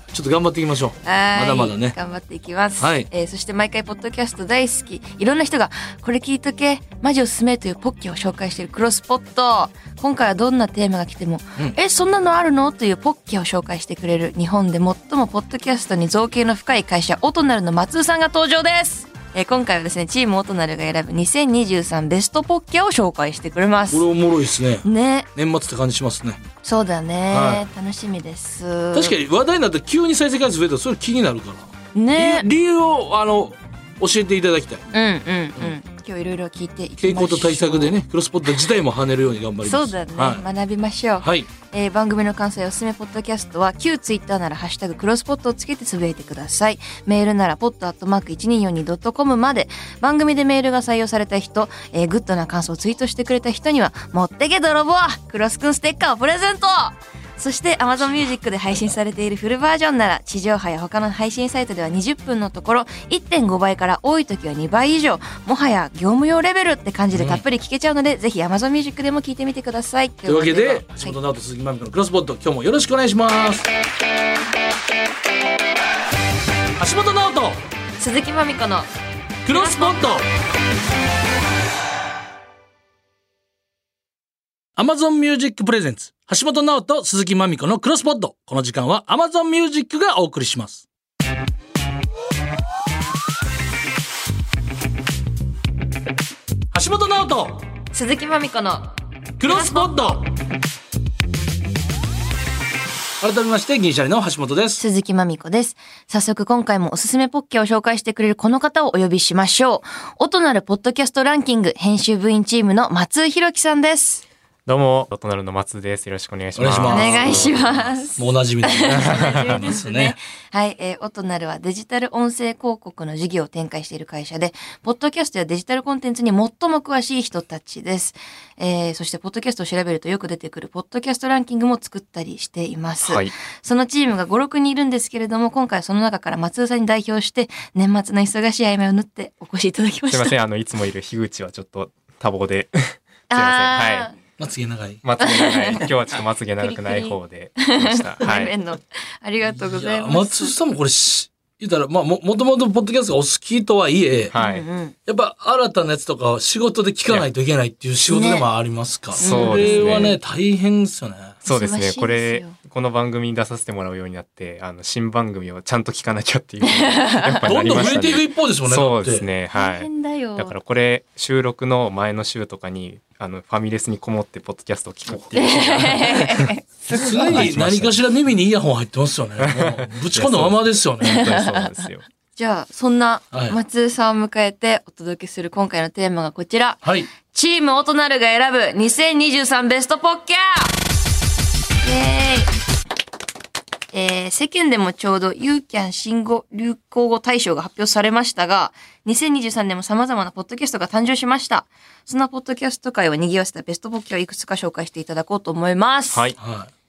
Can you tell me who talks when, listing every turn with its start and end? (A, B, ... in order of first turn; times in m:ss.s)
0:00.1-0:02.0 A
0:01.0-0:24.1 B
0:02.8-0:03.1 A
0:23.9-0:26.4 A
0:24.8-0:25.3 B
0:26.6-0:29.2 B
0:27.3-0:27.6 A
0:28.9-0:34.8 A
0:31.9-0:32.5 B
0:34.9-0:38.0 B
0:37.0-0:40.4 A
0:39.6-1:11.2 B
0:41.2-0:41.5 A
1:07.1-1:07.4 A
1:10.3-1:13.7 A
1:16.8-1:17.6 A
1:18.0-1:18.9 B
1:19.4-1:20.3 A
1:19.5-1:20.2 B
1:24.8-1:30.9 A
1:36.7-1:37.7 A
1:37.9-1:38.9 B
1:39.4-1:40.3 A
1:39.4-1:40.0 B
1:43.2-1:44.8 A
1:44.8-1:54.2 B
1:54.7-1:58.0 C
1:56.6-1:57.5 A
1:56.9-2:20.4 B
1:58.2-2:00.2 A
1:58.9-1:59.6 C
2:13.0-2:13.3 C
2:20.1-2:24.1 C
2:23.3-2:24.2 B
2:24.4-2:25.0 A
2:25.0-2:28.5 C
2:25.2-2:25.9 B
2:26.6-2:27.2 B
2:27.8-2:30.5 B
2:29.4-2:34.3 A
2:34.3-2:34.6 C
2:34.3-2:35.0 B
2:35.1-2:41.4 A
2:38.1-2:38.5 B
2:39.2-2:40.1 B
2:39.2-2:40.2 C
2:41.4-2:56.5 C
2:41.5-2:42.6 B
2:46.7-2:47.4 B
2:47.4-2:49.3 A
2:49.5-2:50.5 B
2:55.3-2:57.5 B
2:56.9-3:01.3 A
2:57.3-2:58.0 C
2:59.4-3:02.1 C
3:01.0-3:10.7 B
3:06.8-3:07.1 A
3:11.8-3:12.5 B
3:13.9-3:26.3 B
3:26.1-3:26.4 C
3:26.4-3:26.7 A